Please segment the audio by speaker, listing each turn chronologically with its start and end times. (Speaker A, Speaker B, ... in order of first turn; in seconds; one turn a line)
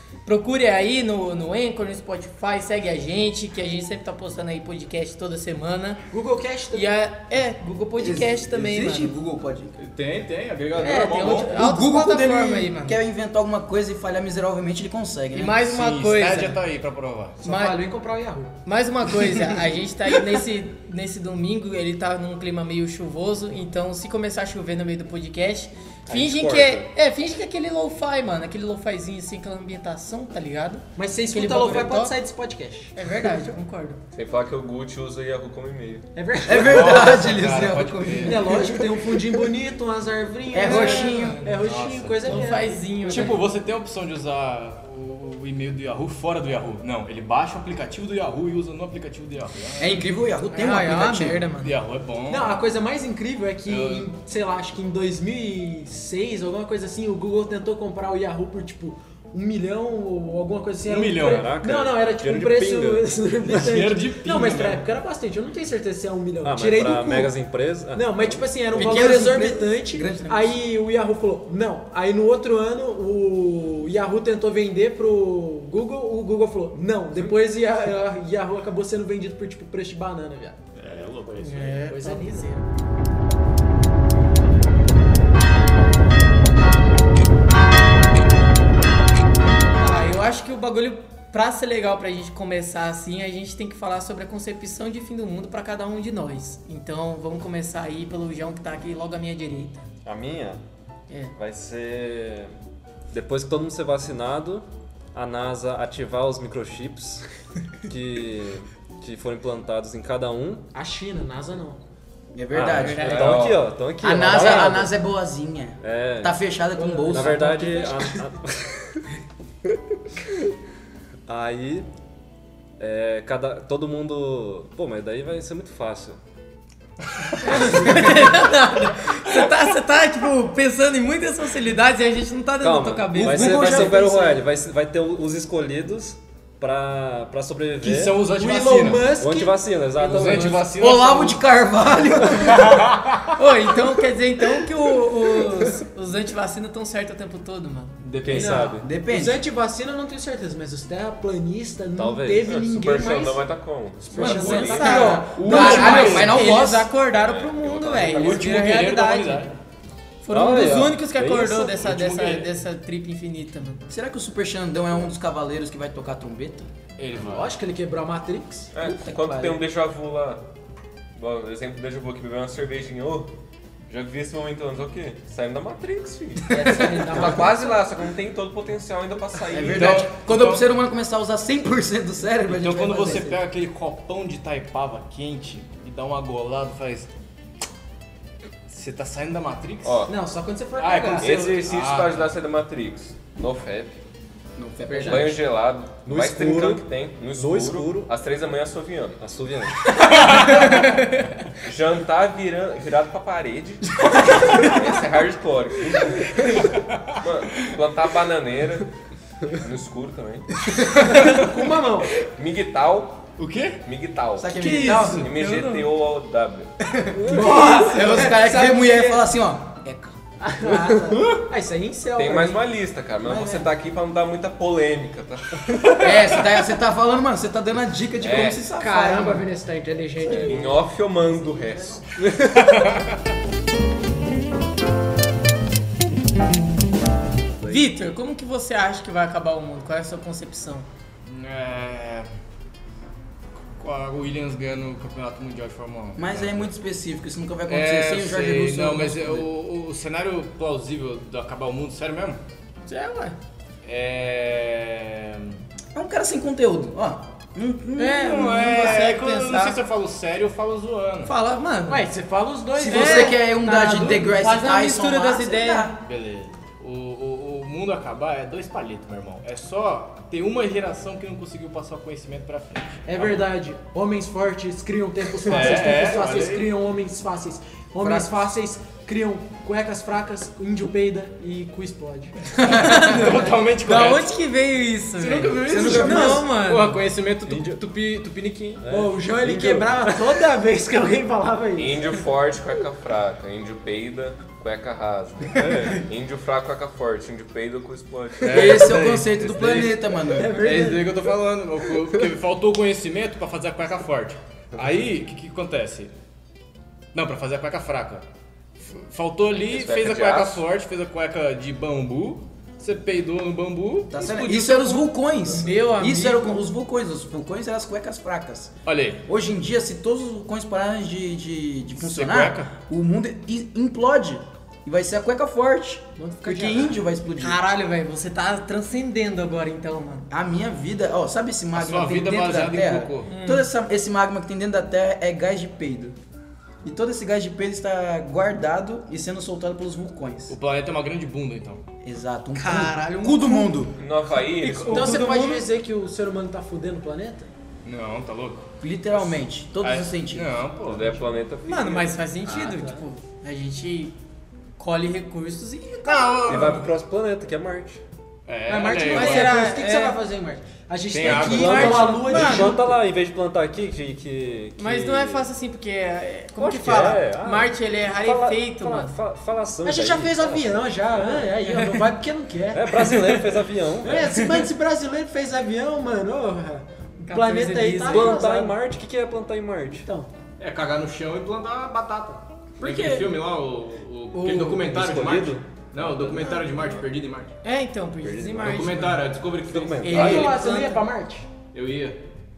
Speaker A: 0.2-6.0
Speaker B: 6.1-6.9
Speaker A: 6.7-9.2
Speaker C: 8.0-9.8
Speaker D: 9.8-11.6
Speaker A: 10.7-13.0
Speaker C: 11.4-15.6
Speaker A: 15.3-16.6
Speaker D: 15.6-17.4
Speaker B: 17.4-18.5
Speaker A: 17.4-17.8
Speaker A: 18.7-32.2
Speaker E: 26.1-26.9
Speaker B: 30.9-32.9
Speaker A: 32.9-34.0
Speaker F: 34.1-36.0
Speaker B: 36.2-37.3
Speaker C: 36.4-38.9
Speaker D: 36.6-38.7
Speaker B: 38.2-43.4
Speaker C: 40.5-41.5
Speaker A: 40.6-41.5
Speaker D: 41.6-42.4
Speaker A: 42.2-43.4
Speaker D: 43.0-50.0
Speaker C: 49.8-51.5
Speaker A: 50.5-51.8
Speaker D: 51.6-52.6
Speaker B: 52.3-67.3
Speaker D: 53.7-54.1
Speaker D: 60.8-61.5
Speaker E: 61.2-63.1
Speaker D: 63.5-64.8
Speaker E: 66.4-69.1
Speaker B: 67.9-80.7
Speaker C: 68.8-70.6
Speaker D: 80.8-81.7
Speaker A: 81.4-82.6
Speaker B: 81.5-82.6
Speaker A: 89.8-99.8
Speaker E: 100.0-100.6
Speaker E: 101.3-102.5
Speaker E: 103.1-107.2
Speaker E: 107.9-110.6
Speaker B: 110.7-111.8
Speaker C: 112.3-113.2
Speaker E: 112.5-114.9
Speaker A: 112.7-113.3
Speaker F: 112.7-113.7
Speaker D: 112.8-113.4
Speaker C: 114.0-117.5
Speaker E: 115.8-116.3
Speaker B: 116.7-118.2
Speaker E: 117.1-119.0
Speaker E: 121.3-121.9
Speaker E: 122.8-126.2
Speaker A: 127.4-133.9
Speaker B: 127.5-128.2
Speaker E: 132.6-138.2
Speaker C: 133.2-134.4
Speaker D: 137.8-139.2
Speaker B: 138.3-139.7
Speaker E: 139.2-140.8
Speaker A: 140.0-140.6
Speaker D: 140.0-141.4
Speaker C: 140.8-142.9
Speaker D: 142.4-143.3
Speaker A: 143.3-147.9
Speaker D: 148.0-148.6
Speaker E: 148.2-148.8
Speaker B: 148.3-153.4
Speaker C: 148.8-149.4
Speaker E: 151.9-152.5
Speaker F: 152.4-156.3
Speaker B: 154.0-155.4
Speaker A: 154.2-159.5
Speaker C: 154.2-156.9
Speaker D: 155.4-156.5
Speaker F: 157.1-158.5
Speaker D: 157.9-159.6
Speaker A: 160.2-163.8
Speaker E: 160.3-161.9
Speaker D: 161.8-162.5
Speaker C: 163.9-166.7
Speaker D: 167.0-167.5
Speaker B: 167.2-168.7
Speaker F: 168.7-170.4
Speaker C: 168.8-169.6
Speaker F: 171.2-173.3
Speaker F: 173.9-180.1
Speaker C: 176.5-177.1
Speaker B: 176.5-177.8
Speaker C: 179.5-183.4
Speaker D: 179.7-180.6
Speaker D: 182.5-187.1
Speaker D: 188.7-190.1
Speaker F: 189.8-190.1
Speaker B: 190.1-191.5
Speaker D: 190.8-192.3
Speaker F: 191.2-194.0
Speaker C: 194.6-195.4
Speaker F: 194.9-199.2
Speaker B: 195.0-195.4
Speaker E: 196.0-198.1
Speaker E: 199.2-199.8
Speaker D: 199.9-201.3
Speaker F: 201.6-208.9
Speaker D: 206.5-207.2
Speaker F: 209.5-210.6
Speaker D: 211.0-211.5
Speaker B: 211.1-212.1
Speaker F: 212.1-213.3
Speaker D: 213.4-213.8
Speaker F: 213.9-216.7
Speaker C: 214.4-215.3
Speaker B: 214.6-215.2
Speaker D: 214.6-215.1
Speaker A: 215.3-215.9
Speaker C: 216.9-220.1
Speaker E: 217.2-217.6
Speaker B: 217.2-219.2
Speaker B: 220.4-222.6
Speaker D: 221.1-221.4
Speaker F: 222.2-225.9
Speaker C: 223.2-223.6
Speaker D: 225.7-226.2
Speaker C: 225.9-229.5
Speaker F: 228.2-228.7
Speaker B: 228.8-232.0
Speaker F: 230.2-232.1
Speaker D: 232.4-233.2
Speaker A: 237.6-240.9
Speaker D: 241.2-242.3
Speaker D: 243.8-246.7
Speaker C: 246.2-249.4
Speaker D: 247.7-252.4
Speaker A: 252.9-253.4
Speaker D: 253.8-255.6
Speaker C: 255.9-258.9
Speaker A: 258.0-259.8
Speaker D: 258.2-261.3
Speaker A: 261.2-262.1
Speaker B: 261.9-264.3
Speaker C: 262.8-266.0
Speaker A: 262.9-265.9
Speaker D: 266.0-273.5
Speaker B: 273.1-282.4
Speaker D: 275.4-276.7
Speaker C: 278.0-278.3
Speaker A: 282.6-287.0
Speaker D: 282.6-284.4
Speaker D: 285.2-288.8
Speaker C: 285.6-286.4
Speaker B: 285.9-286.4
Speaker E: 287.4-287.8
Speaker E: 288.8-290.4
Speaker B: 288.9-292.1
Speaker F: 291.8-298.9
Speaker E: 295.6-296.0
Speaker D: 298.4-300.0
Speaker C: 298.5-300.6
Speaker B: 300.2-301.2
Speaker D: 300.6-306.1
Speaker D: 307.1-308.2
Speaker D: 308.8-314.3
Speaker F: 309.6-310.6
Speaker C: 314.1-318.7
Speaker A: 314.2-316.6
Speaker D: 318.9-319.2
Speaker C: 319.2-327.6
Speaker D: 322.0-322.7
Speaker B: 326.2-327.0
Speaker A: 327.4-330.3
Speaker C: 330.3-336.1
Speaker D: 331.7-333.3
Speaker A: 333.2-333.7
Speaker C: 336.8-340.6
Speaker D: 340.5-341.8
Speaker C: 342.0-343.9
Speaker A: 342.6-343.8
Speaker F: 344.0-345.2
Speaker A: 344.6-345.6
Speaker B: 344.8-347.5
Speaker D: 347.8-348.7
Speaker C: 348.8-350.6
Speaker D: 349.8-351.2
Speaker F: 350.9-352.1
Speaker A: 351.7-354.1
Speaker B: 352.4-353.1
Speaker A: 354.8-356.8
Speaker D: 356.1-356.9
Speaker E: 356.4-358.0
Speaker D: 358.5-359.6
Speaker B: 358.7-363.0
Speaker A: 359.0-360.2
Speaker D: 361.1-362.2
Speaker E: 361.2-365.4
Speaker A: 361.4-362.7
Speaker A: 364.8-369.1
Speaker E: 366.6-371.5
Speaker B: 369.8-373.4
Speaker A: 371.7-371.9
Speaker E: 372.7-374.3
Speaker B: 374.0-378.8
Speaker A: 377.2-378.4
Speaker E: 378.1-380.1
Speaker B: 380.0-380.3
Speaker D: 380.6-387.5
Speaker B: 382.8-383.3
Speaker A: 384.3-384.8
Speaker E: 384.8-386.6
Speaker A: 387.6-389.2
Speaker E: 388.2-389.0
Speaker D: 388.6-390.4
Speaker E: 389.6-390.6
Speaker A: 390.0-391.1
Speaker B: 390.1-391.5
Speaker D: 391.7-392.2